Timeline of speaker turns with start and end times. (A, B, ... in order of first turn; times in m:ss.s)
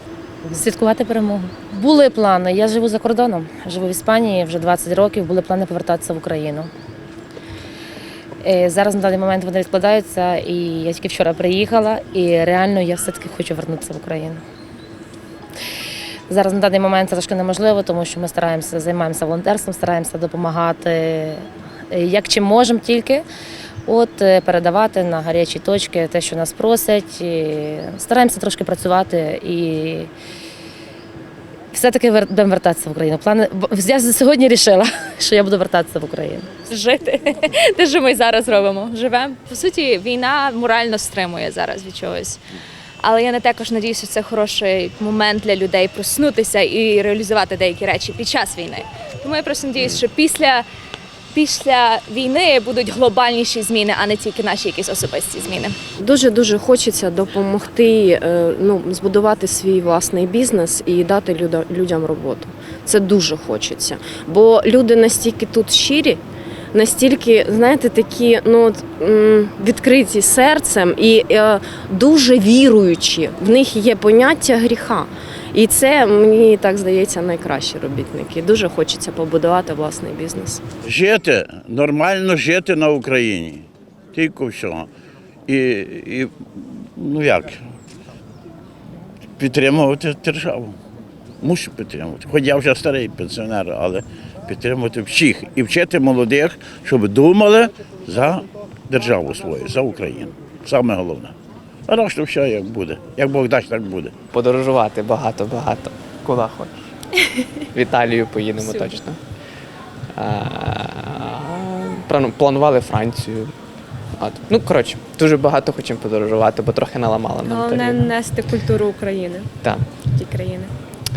0:00.5-0:06.7 A
0:08.4-0:14.4 A
0:16.3-0:23.2 A
0:23.9-0:30.1 A
0:31.7-0:36.5 A
0:36.7-0:42.4 B
0:43.0-0:50.6 B
0:51.3-0:55.7 B
0:56.0-1:06.2 C
1:06.7-1:20.6 C
1:20.8-1:24.9 D
1:25.5-1:27.6 D
1:29.4-1:30.8 D
1:31.4-1:41.3 D
1:41.9-1:44.1 D
1:44.3-1:49.2 E
1:50.1-1:53.6 E
1:54.1-1:58.1 E
1:57.4-1:59.5 F
1:59.6-1:59.9 E
2:00.1-2:00.7 F